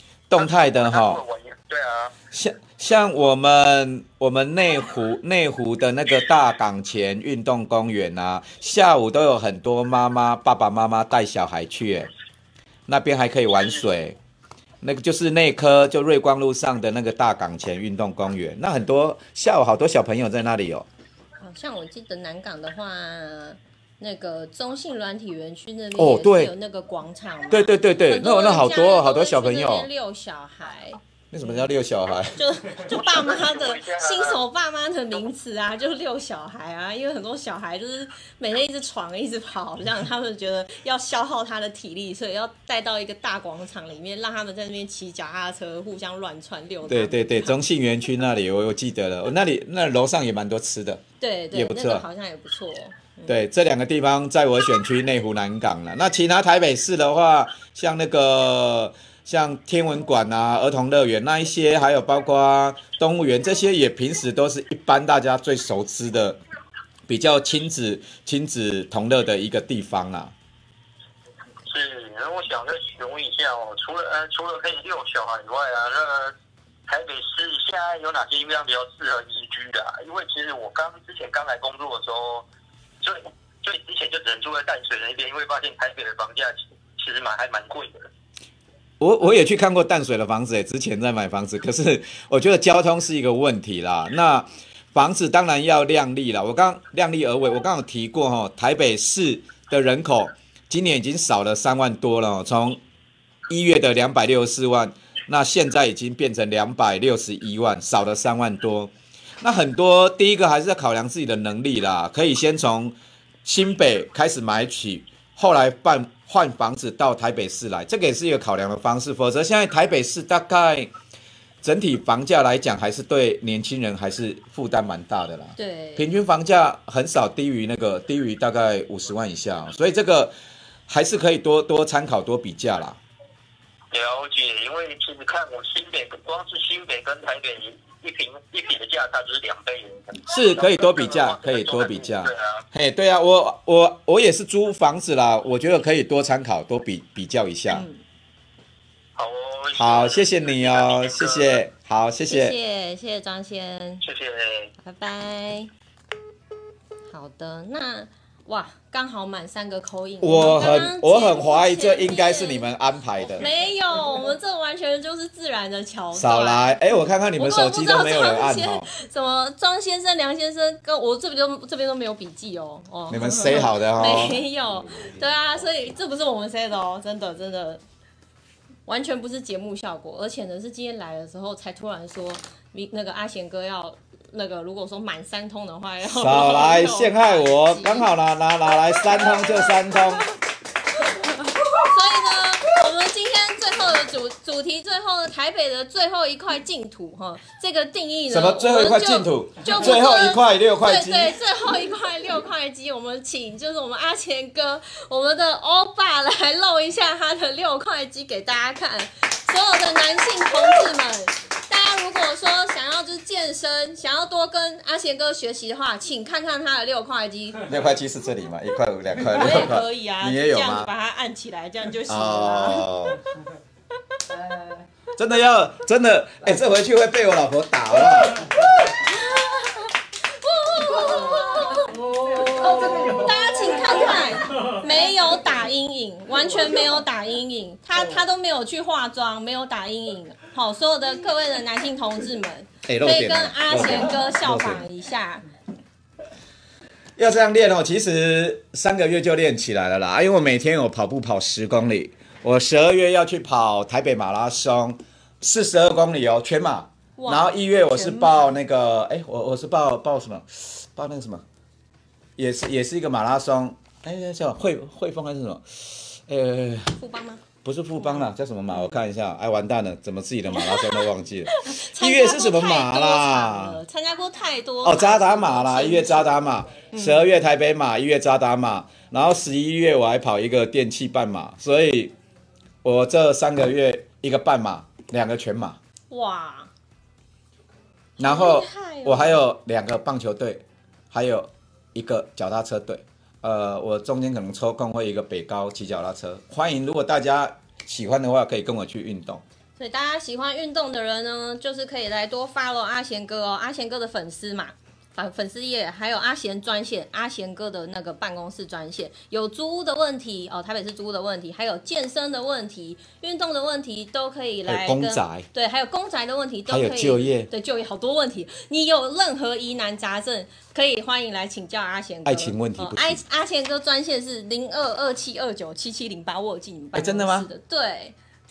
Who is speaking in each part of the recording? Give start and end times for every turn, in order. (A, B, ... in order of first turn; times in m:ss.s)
0:00.3-0:01.2 A
0:00.3-0:02.1 B
0:02.3-0:12.1 A
0:12.9-0:14.2 A
0:14.8-0:20.9 A
0:21.4-0:31.7 C
0:26.0-0:26.5 A
0:27.5-0:29.9 A
0:31.3-0:32.5 A
0:32.4-0:47.6 C
0:32.9-0:34.4 B
0:46.9-0:52.0 A
0:51.2-0:53.4 C
0:53.3-1:06.4 A
1:07.1-1:10.3 A
1:11.7-1:16.3 B
1:16.9-1:22.5 B
1:23.0-1:28.1 B
1:29.0-1:42.8 A
1:43.5-2:00.9 A
2:01.6-2:10.4 A
2:05.6-2:06.1 C
2:10.9-2:13.0 A
2:13.9-2:22.6 B
2:20.2-2:27.9 A
2:27.7-2:28.0 C
2:29.2-2:31.6 B
2:29.8-2:32.6 A
2:32.3-2:34.0 C
2:34.0-2:34.7 B
2:34.8-2:35.7 C
2:37.1-2:42.7 C
2:40.2-2:43.5 A
2:43.4-2:46.8 C
2:46.1-2:48.9 A
2:47.4-2:57.8 C
2:53.1-2:54.4 A
2:58.9-3:08.1 C
3:06.0-3:10.3 A
3:09.0-3:10.2 C
3:11.7-3:37.7 C
3:18.3-3:21.4 A
3:37.6-3:40.9 A
3:39.3-3:42.9 C
3:42.1-3:43.2 A
3:45.2-3:48.6 A
3:49.1-3:49.9 C
3:50.4-4:05.4 C
4:02.9-4:04.8 A
4:07.2-4:21.4 A
4:17.2-4:18.6 C
4:22.4-4:27.0 A
4:27.0-4:27.4 C
4:27.6-4:33.8 A
4:28.0-4:28.9 C
4:30.5-4:37.3 C
4:34.8-4:42.1 A
4:42.8-4:45.8 A
4:46.1-4:46.7 C
4:48.2-4:49.4 C
4:48.2-4:59.4 A
4:59.8-5:28.2 C
5:14.7-5:15.5 A
5:16.7-5:17.5 A
5:22.2-5:23.2 A
5:27.0-5:27.5 A